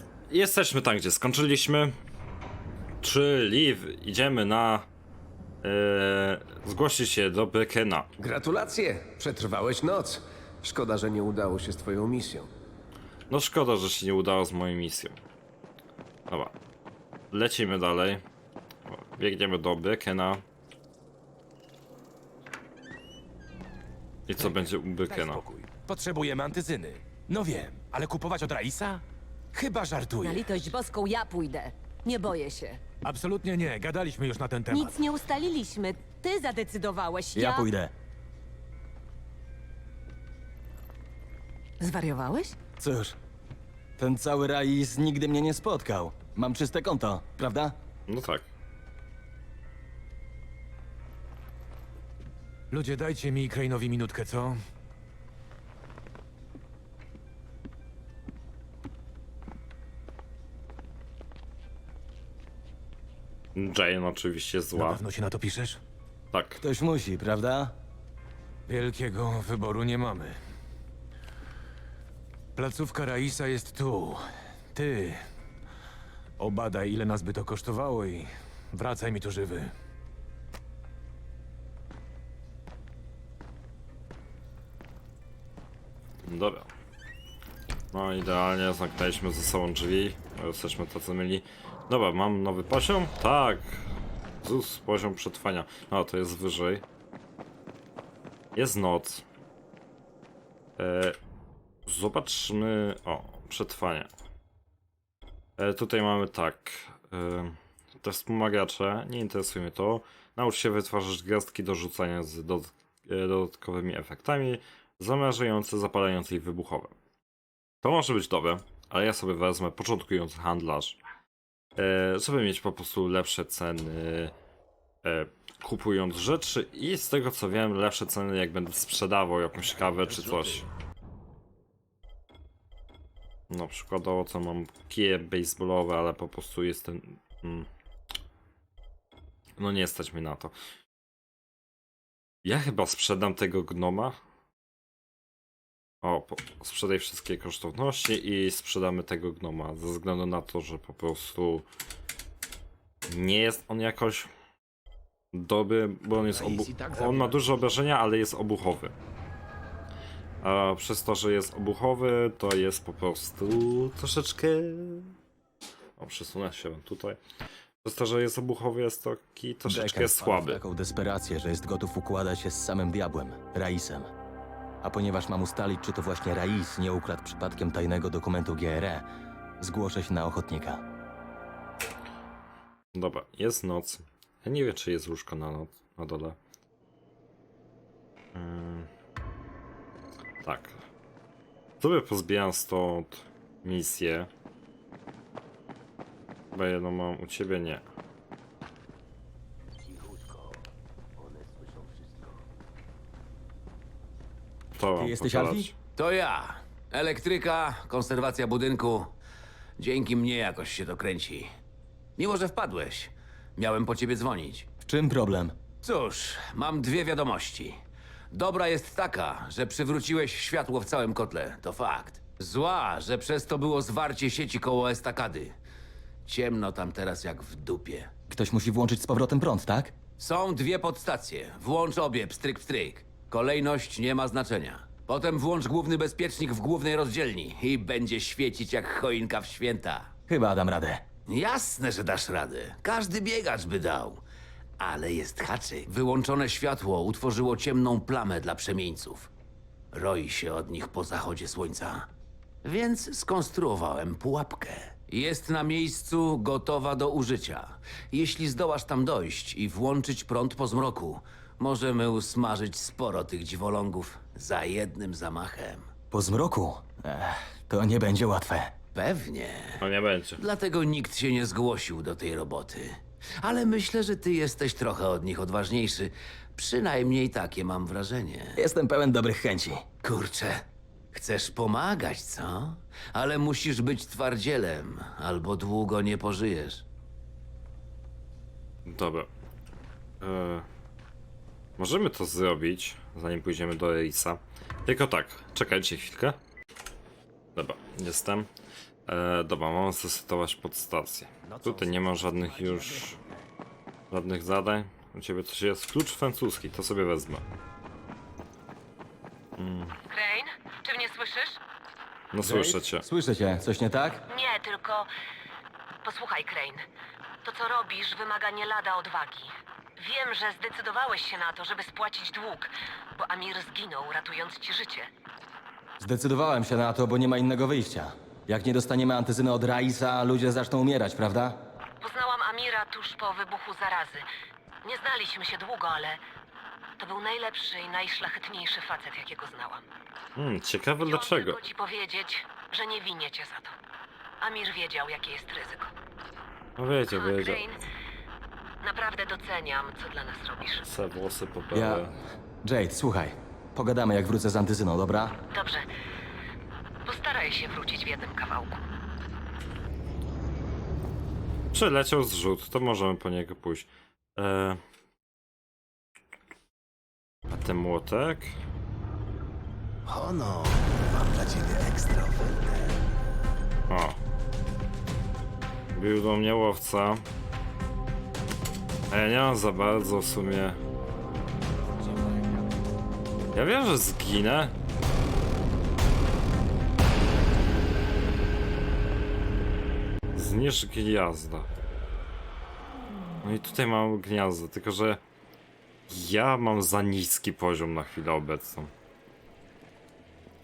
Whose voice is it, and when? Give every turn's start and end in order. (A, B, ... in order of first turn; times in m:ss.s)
0:00.3-0:02.0 A
0:03.0-0:04.9 A
0:05.6-0:08.1 A
0:08.2-0:12.5 B
0:13.3-0:15.2 A
0:16.3-0:16.5 A
0:17.3-0:18.2 A
0:18.9-0:20.4 A
0:24.3-0:25.4 A
0:24.4-0:30.7 C
0:30.2-0:32.8 D
0:33.0-0:35.0 C
0:34.7-0:37.7 D
0:37.4-0:37.9 E
0:41.8-0:42.6 D
0:42.8-0:43.2 E
0:44.0-0:47.8 E
0:48.1-0:48.5 A
0:52.7-0:54.6 C
1:03.6-1:05.0 A
1:04.7-1:05.8 C
1:06.3-1:06.6 A
1:06.6-1:07.8 E
1:08.7-1:10.4 C
1:12.6-1:14.2 C
1:14.7-1:15.2 C
1:16.4-1:19.7 C
1:26.2-1:26.7 A
1:27.9-1:33.8 A
1:34.4-1:36.8 A
1:38.6-1:39.2 A
1:40.8-1:41.2 A
1:41.9-1:44.1 A
1:45.6-1:56.9 A
1:57.8-2:01.0 A
2:01.8-2:04.3 A
2:05.0-2:10.7 A
2:13.5-2:17.7 A
2:19.6-2:20.5 A
2:22.4-2:24.2 A
2:26.0-2:31.7 A
2:33.1-2:34.3 A
2:35.3-2:38.9 A
2:36.3-2:37.5 B
2:40.4-2:45.2 A
2:46.0-2:47.2 A
2:47.8-2:50.6 A
2:49.7-2:54.1 E
2:54.8-2:59.1 E
2:59.6-3:00.8 E
3:02.9-3:06.4 A
3:08.4-3:08.9 A
3:10.4-3:10.8 A
3:11.8-3:14.3 A
3:16.5-3:17.8 A
3:24.8-3:25.7 A
3:25.0-3:25.7 E
3:26.0-3:29.1 F
3:29.8-3:31.5 F
3:32.2-3:34.7 F
3:34.8-3:35.6 E
3:35.8-3:37.8 F
3:38.3-3:45.6 F
3:46.3-3:48.1 F
3:48.3-3:50.0 E
3:50.2-4:00.1 F
4:00.3-4:01.0 E
4:01.3-4:04.2 F
4:04.8-4:09.3 F
4:09.9-4:12.1 F
4:12.6-4:25.9 F
4:26.1-4:28.7 E
4:28.9-4:29.8 F
4:29.8-4:30.4 A
4:30.4-4:38.6 F
4:38.6-4:39.8 E
4:40.0-4:46.8 F
4:48.9-4:49.3 A
4:50.2-4:50.7 A
4:51.8-4:56.4 A
4:57.6-4:58.5 A
4:59.1-5:03.2 A
5:01.5-5:03.1 B
5:04.1-5:07.4 A
5:09.6-5:10.0 A
5:10.1-5:11.6 D
5:12.3-5:13.1 A
5:12.4-5:14.2 E
5:14.3-5:15.1 D
5:16.0-5:16.8 D
5:17.4-5:25.1 D
5:26.0-5:31.6 E
5:32.0-5:34.3 D
5:34.8-5:36.2 D
5:37.0-5:39.8 D
5:40.4-5:41.6 A
5:41.0-5:43.8 D
5:44.4-5:45.9 D
5:46.8-5:47.6 A
5:47.1-5:47.8 D
5:48.8-5:50.8 D
5:50.8-5:52.2 A
5:51.7-5:52.1 E
5:52.6-5:55.4 E
5:55.5-5:55.9 D
5:57.0-5:58.8 D
6:01.7-6:04.8 A
6:07.5-6:08.6 A
6:10.1-6:13.0 B
6:13.9-6:14.2 A
6:15.9-6:17.2 A
6:19.1-6:20.8 A
6:23.5-6:24.7 A
6:30.3-6:31.7 A
6:33.4-6:35.2 A
6:36.1-6:38.9 A